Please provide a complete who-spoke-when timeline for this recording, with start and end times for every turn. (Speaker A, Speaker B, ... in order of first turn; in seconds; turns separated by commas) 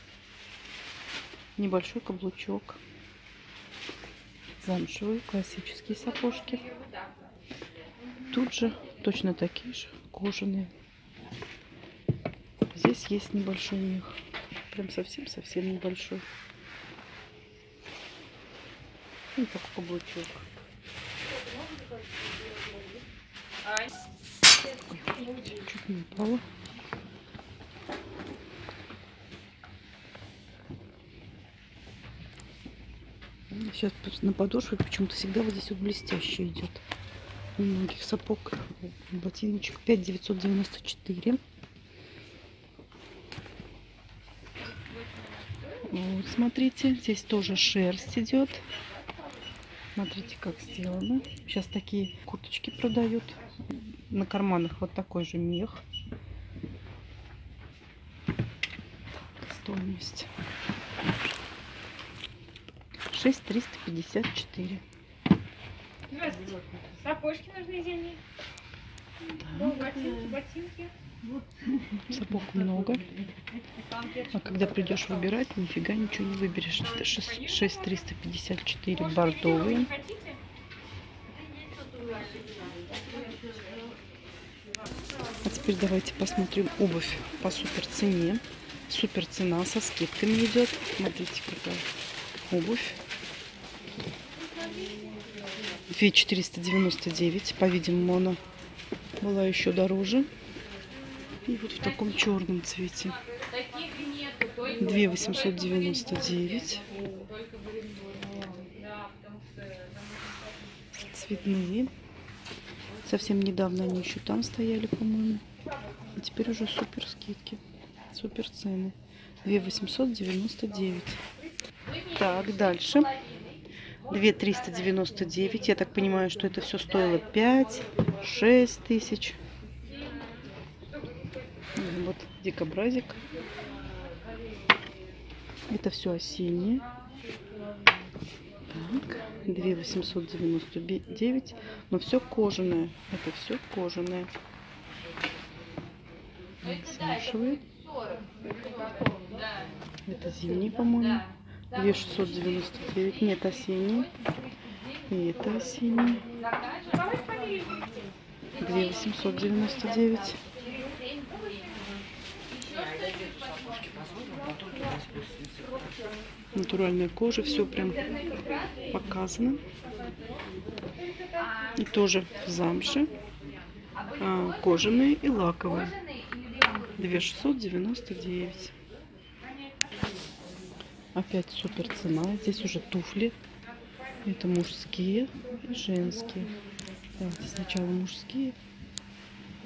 Speaker A: 1.6-2.8, Speaker A: 4.6-6.6, Speaker A: 8.3-10.7, Speaker A: 12.7-14.2, Speaker A: 14.7-16.2, Speaker A: 19.3-20.4, Speaker A: 24.9-26.4, Speaker A: 33.5-36.8, Speaker A: 37.5-41.4, Speaker A: 45.9-48.6, Speaker A: 50.0-53.4, Speaker A: 54.1-55.8, Speaker A: 59.3-60.3, Speaker A: 63.1-64.8, Speaker B: 66.1-68.2, Speaker A: 69.4-70.3, Speaker B: 69.8-70.9, Speaker A: 72.1-73.1, Speaker A: 74.3-79.9, Speaker B: 79.9-80.4, Speaker B: 82.0-82.2, Speaker A: 85.4-91.8, Speaker A: 92.5-93.0, Speaker A: 95.9-98.4, Speaker A: 99.2-100.3, Speaker A: 101.4-103.2, Speaker B: 103.6-104.7, Speaker A: 104.8-106.8, Speaker B: 107.2-108.2, Speaker A: 110.9-111.9, Speaker A: 113.0-115.4, Speaker A: 116.1-121.2, Speaker A: 122.1-123.1, Speaker A: 124.1-129.4, Speaker A: 131.7-133.2, Speaker A: 135.7-136.8, Speaker A: 138.7-144.3, Speaker A: 146.6-147.6, Speaker A: 150.1-154.1, Speaker A: 155.1-156.2, Speaker B: 156.7-157.8, Speaker A: 158.6-160.4, Speaker B: 161.0-161.7, Speaker B: 162.9-163.3, Speaker A: 166.5-168.1, Speaker A: 168.9-169.6, Speaker A: 171.7-173.1, Speaker A: 174.2-176.0, Speaker A: 176.9-178.7, Speaker A: 181.1-183.3, Speaker A: 184.2-186.5, Speaker A: 187.2-188.6